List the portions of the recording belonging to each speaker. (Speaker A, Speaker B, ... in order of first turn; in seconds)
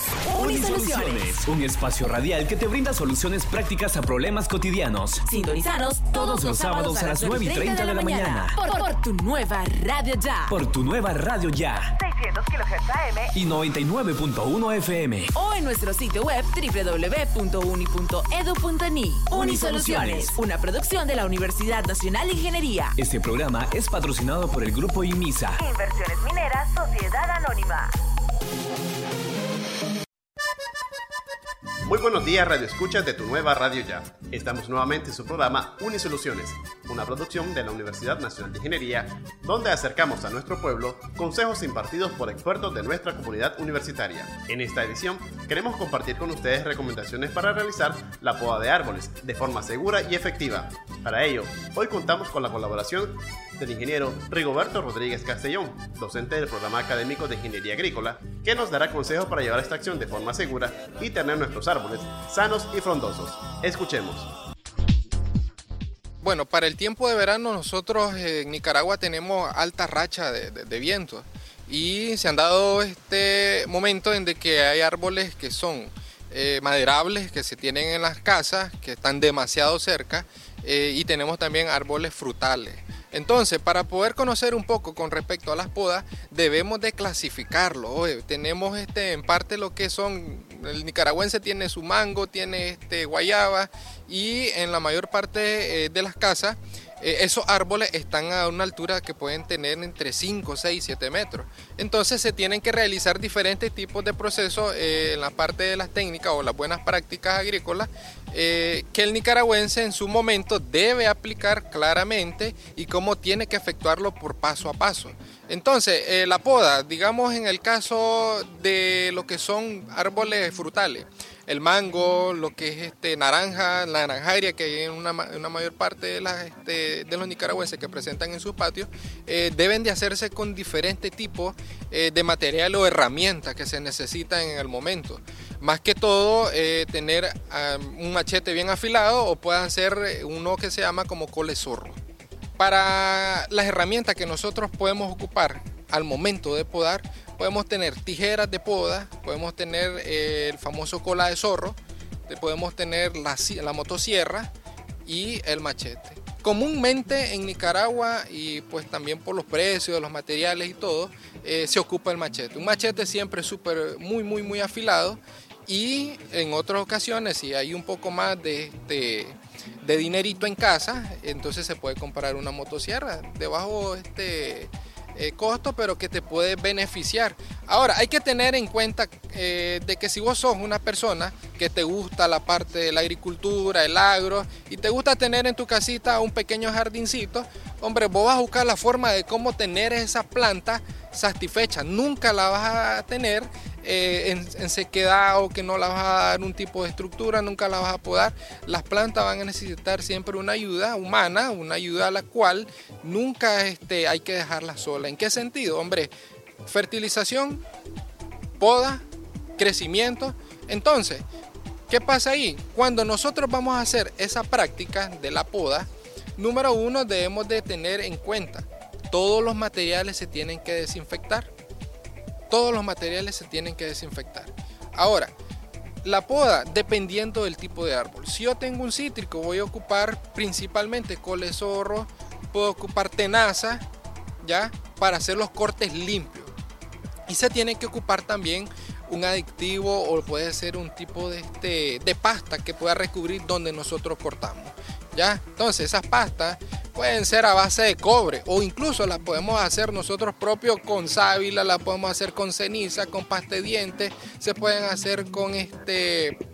Speaker A: 0.3-5.2, 6.1-8.6, 10.5-11.9, 13.3-15.3, 19.3-20.4, 22.9-25.6
Speaker B: 0.3-1.3, 5.2-10.5, 15.3-22.9
Speaker C: 12.0-13.3, 25.6-27.9
Speaker D: 31.8-64.3
Speaker E: 66.2-142.0, 142.6-151.8, 152.3-154.5, 155.1-206.1, 206.6-207.6, 208.6-209.0, 209.6-211.2, 211.9-221.5, 222.5-225.3, 226.0-233.8, 234.4-236.5, 237.3-256.4